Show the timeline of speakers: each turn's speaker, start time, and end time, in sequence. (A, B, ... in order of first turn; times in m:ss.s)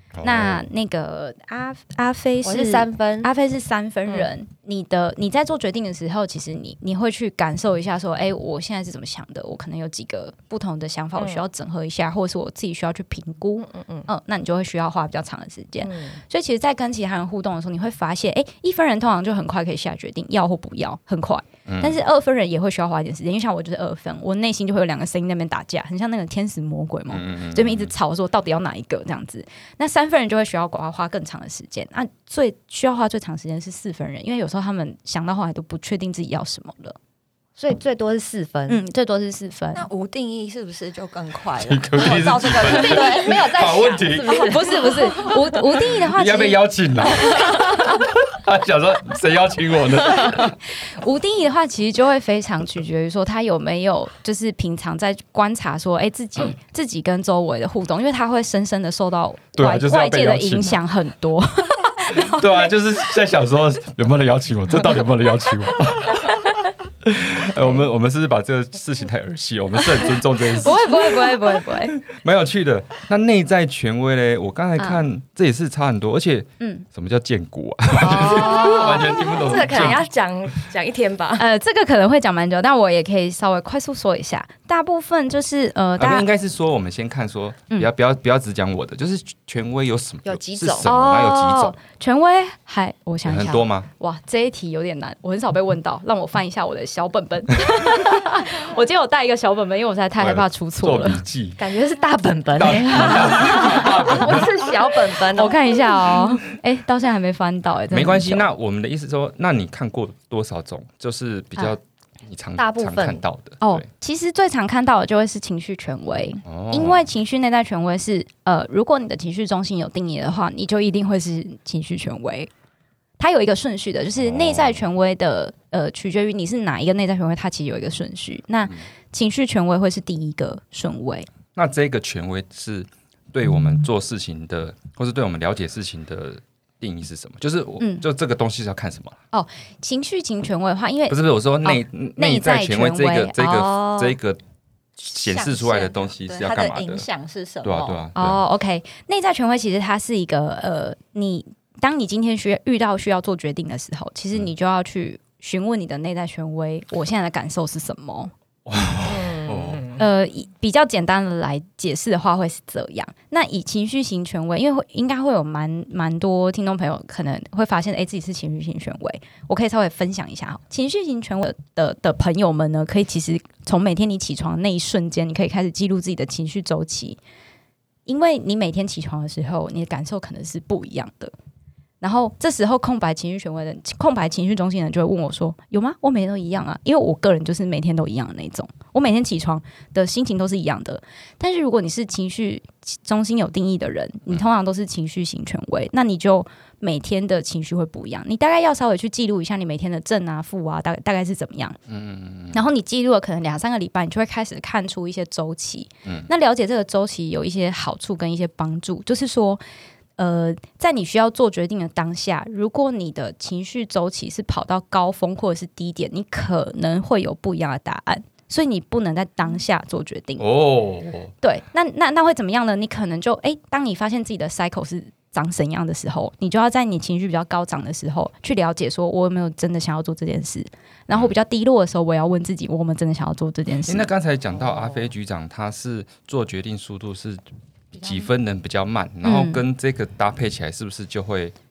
0:00.2-0:00.7 A
0:00.2-0:37.0 B
0:02.4-0:03.3 C
0:11.2-0:11.4 C
0:13.7-0:14.1 C
0:15.8-0:16.2 C
0:21.7-0:22.0 A
0:27.1-0:27.9 A
0:37.6-0:38.8 C
0:38.7-0:39.8 B
0:39.7-0:43.8 D
0:41.6-0:44.5 A
0:42.6-0:45.3 C
0:44.3-0:48.0 B
0:46.0-0:50.6 A
0:50.9-1:02.7 B
0:59.6-1:00.8 A
1:02.1-1:06.4 A
1:07.0-1:20.0 A
1:10.6-1:12.0 B
1:16.6-1:16.8 B
1:18.0-1:21.5 C
1:18.1-1:20.0 B
1:21.4-1:26.3 B
1:26.0-1:31.8 A
1:30.3-1:30.9 C
1:30.8-1:41.2 B
1:33.2-1:33.9 A
1:40.2-1:41.6 A
1:41.6-1:45.8 C
1:42.6-1:44.6 A
1:42.6-1:44.2 B
1:45.3-1:48.5 B
1:47.9-1:53.9 A
1:52.6-1:53.2 C
1:53.6-2:02.5 B
1:56.4-1:57.1 A
2:03.2-2:11.3 B
2:04.2-2:04.8 A
2:11.6-2:19.2 A
2:17.8-2:18.0 B
2:19.3-2:24.2 B
2:21.1-2:24.4 A
2:25.0-2:27.1 A
2:25.1-2:28.0 D
2:27.6-2:28.4 A
2:28.2-2:38.3 B
2:38.7-2:40.0 A
2:39.0-2:40.0 C
2:40.0-2:57.2 B
2:58.1-3:01.3 B
3:02.0-3:21.8 B
3:21.9-3:22.6 A
3:22.5-3:29.6 B
3:30.2-3:40.5 B
3:40.4-3:41.3 A
3:41.4-3:54.1 B
3:53.9-3:57.4 A
3:57.9-4:01.6 A
3:59.2-3:59.6 B